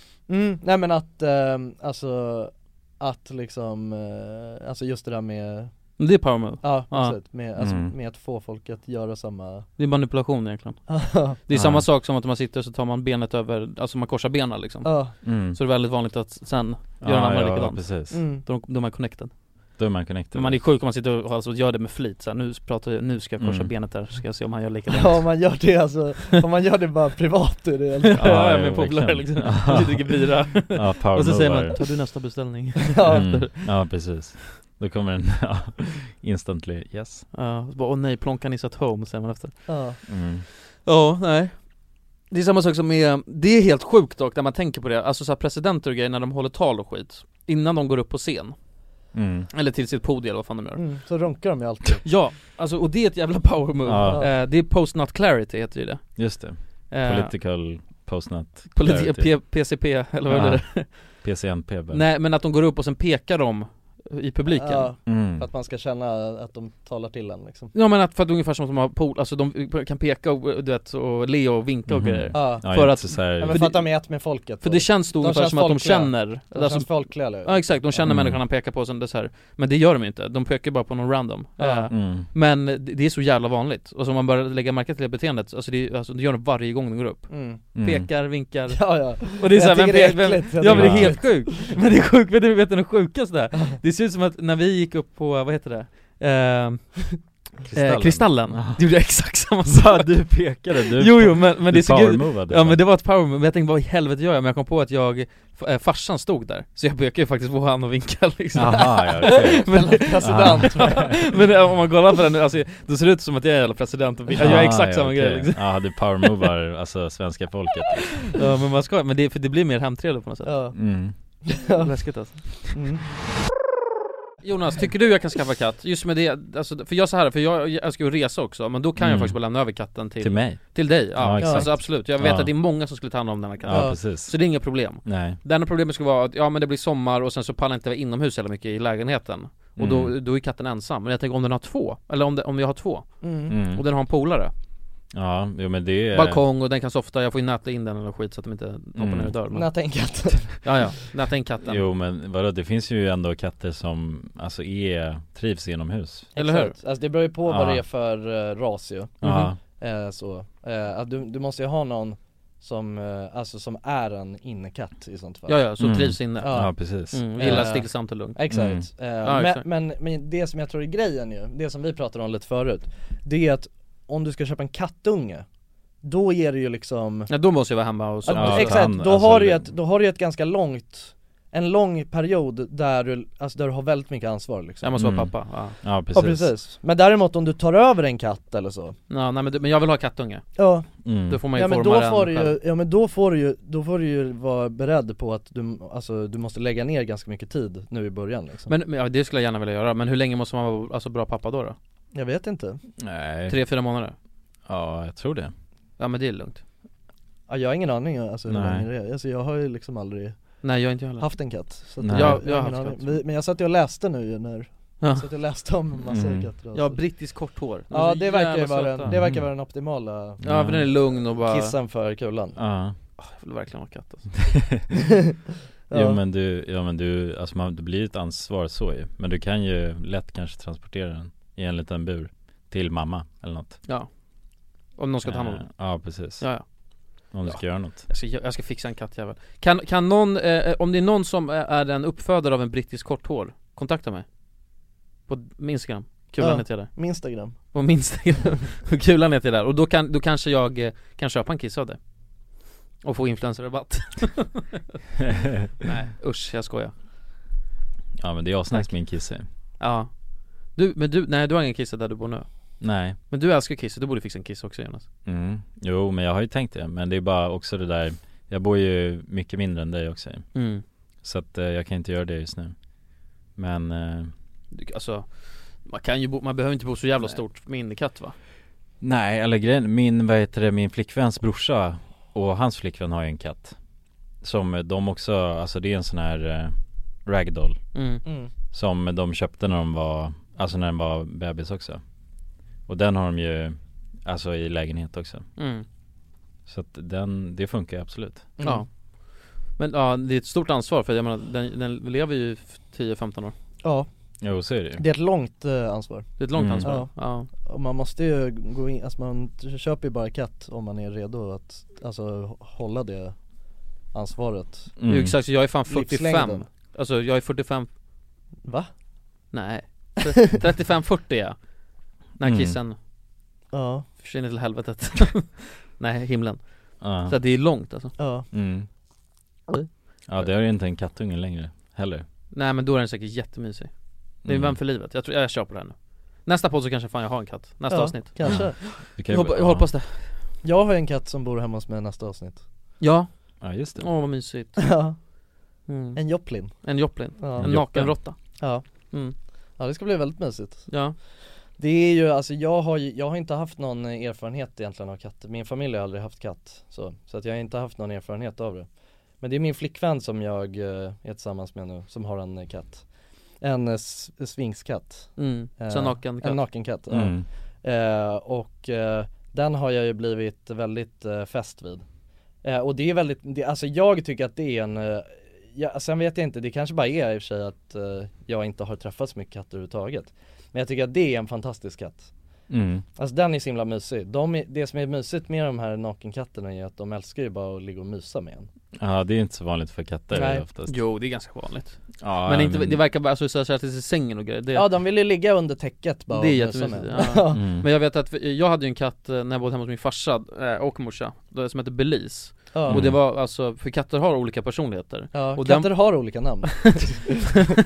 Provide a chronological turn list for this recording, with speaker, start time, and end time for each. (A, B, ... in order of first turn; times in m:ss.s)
0:00.3-0:05.7 A
0:06.0-0:07.2 B
0:06.6-0:09.7 A
0:07.6-0:07.9 C
0:09.8-0:19.8 B
0:10.9-0:11.4 A
0:11.5-0:11.8 C
0:14.8-0:15.1 A
0:15.2-0:15.6 C
0:17.0-0:18.2 C
0:18.1-0:18.4 A
0:19.8-0:20.6 C
0:20.3-0:25.4 B
0:23.4-0:23.7 C
0:24.9-0:28.2 A
0:28.0-0:33.7 B
0:28.2-0:31.8 C
0:32.8-0:33.4 A
0:33.1-0:37.2 C
0:37.3-0:40.0 B
0:39.7-0:40.0 A
0:40.1-0:40.4 C
0:40.7-0:41.7 B
0:42.3-0:48.6 B
0:49.1-0:49.5 C
0:49.5-0:50.8 B
0:50.8-0:52.1 A
0:52.0-0:56.4 B
0:53.8-0:54.2 C
0:56.2-0:59.4 C
0:56.9-0:57.3 B
0:58.7-1:01.2 B
1:00.3-1:02.0 C
1:01.9-1:04.9 B
1:04.5-1:07.7 A
1:05.0-1:05.4 C
1:07.7-1:37.2 B
1:11.9-1:13.6 C
1:12.3-1:18.0 A
1:18.0-1:18.4 C
1:21.6-1:21.9 A
1:21.9-1:22.3 C
1:27.3-1:27.6 A
1:27.7-1:28.1 C
1:28.7-1:31.8 A
1:30.6-1:31.3 C
1:37.6-1:38.8 C
1:37.7-1:40.1 B
1:39.6-1:42.8 C
1:40.8-1:56.3 B
1:48.5-1:51.2 C
1:49.7-1:51.2 A
1:54.4-1:58.2 C
1:58.3-2:00.5 B
2:00.4-2:00.8 A
2:00.7-2:01.1 C
2:01.4-2:03.0 A
2:01.8-2:02.5 B
2:04.4-2:24.5 B
2:09.0-2:12.5 C
2:11.4-2:11.7 A
2:13.6-2:15.4 C
2:13.7-2:14.0 A
2:19.8-2:20.1 C
2:23.2-2:23.6 A
2:23.5-2:23.8 C
2:25.1-2:26.4 C
2:26.1-2:29.7 B
2:29.0-2:29.3 C
2:29.5-2:30.8 A
2:30.6-2:31.9 B
2:31.6-2:36.3 C
2:36.3-2:46.8 A
2:36.4-2:36.7 B
2:37.4-2:37.8 C
2:39.2-2:39.6 C
2:39.2-2:39.5 B
2:45.5-2:48.4 B
2:45.8-2:47.7 C
2:47.4-2:55.4 A
2:48.5-2:48.8 C
2:49.2-2:49.6 B
2:56.0-2:57.3 A
2:57.3-2:58.8 B
2:58.2-3:04.9 A
2:58.3-2:59.7 C
3:04.8-3:05.8 B
3:05.0-3:06.5 C
3:06.1-3:09.0 A
3:09.1-3:10.4 B
3:10.6-3:10.9 A
3:11.0-3:11.4 C
3:11.3-3:12.6 B
3:11.5-3:18.7 A
3:18.7-3:21.8 B
3:22.1-3:22.8 A
3:23.0-3:23.6 C
3:23.5-3:24.2 B
3:24.6-3:25.5 C
3:26.0-3:26.6 B
3:27.5-3:30.6 A
3:28.5-3:28.8 C
3:30.6-3:33.2 B
3:31.2-3:37.0 A
3:32.0-3:32.4 C
3:35.0-3:35.3 B
3:36.1-3:36.5 C
3:36.7-3:39.1 B
3:37.9-3:40.4 A
3:39.0-3:39.5 C
3:40.4-3:40.9 C
3:40.4-3:41.8 B
3:41.1-3:42.6 A
3:42.6-3:43.0 C
3:43.2-3:44.3 B
3:45.9-3:46.2 A
3:45.9-3:53.8 C
3:54.9-3:56.7 B
3:55.2-3:56.5 C
3:57.2-4:04.3 B
3:57.3-3:58.0 C
4:05.3-4:12.0 B
4:06.4-4:07.5 A
4:13.0-4:14.8 B
4:15.2-4:15.7 C
4:15.8-4:16.9 B
4:18.2-4:19.4 C
4:18.7-4:25.0 B
4:22.8-4:23.2 C
4:25.2-4:30.5 C
4:30.5-4:30.8 B
4:31.2-4:32.8 C
4:33.5-4:34.3 C
4:34.7-4:38.3 B
4:39.0-4:43.8 C
4:44.4-4:47.8 C
4:47.9-4:48.2 B
4:48.7-4:52.0 C
4:52.9-4:55.4 C
4:55.6-4:55.8 B
4:56.6-4:58.5 C
4:58.6-4:58.8 A
4:59.8-5:03.5 B
5:04.4-5:05.0 C
5:05.0-5:13.4 A
5:06.4-5:07.5 B
5:06.6-5:06.9 C
5:14.1-5:15.0 A
5:15.0-5:15.4 C
5:15.0-5:17.9 B
5:15.8-5:16.6 A
5:18.6-5:18.9 A
5:19.5-5:21.7 B
5:22.4-5:23.0 B
5:22.4-5:22.8 C
5:23.7-5:24.0 A
5:24.2-5:28.1 B
5:27.0-5:27.4 C
5:28.2-5:28.5 A
5:28.5-5:28.9 C
5:30.2-5:32.2 C
5:32.5-5:33.9 B
5:34.4-5:40.2 B
5:34.4-5:34.8 C
5:37.9-5:38.8 A
5:38.4-5:39.9 C
5:40.6-5:42.6 A
5:43.0-5:43.3 B
5:43.6-5:44.1 C
5:44.0-5:44.8 B
5:44.8-5:45.2 A
5:45.9-5:48.6 B
5:46.2-5:47.7 A
5:47.6-5:48.2 C
5:48.6-5:48.8 A
5:49.8-5:50.9 A
5:50.9-5:51.2 B
5:51.8-5:58.9 A
5:59.4-6:03.0 A
6:03.6-6:12.0 A
6:05.4-6:06.6 B
6:07.1-6:07.4 C
6:12.6-6:22.3 A
6:22.7-6:23.0 C
6:23.2-6:28.7 A
6:29.0-6:31.0 C
6:30.3-6:30.6 A
6:30.9-6:34.9 B
6:32.2-6:33.0 C
6:34.7-6:37.6 A
6:36.3-6:47.0 B
6:37.5-6:37.9 C
6:42.7-6:43.0 A
6:42.9-6:43.2 C
6:45.3-6:47.4 A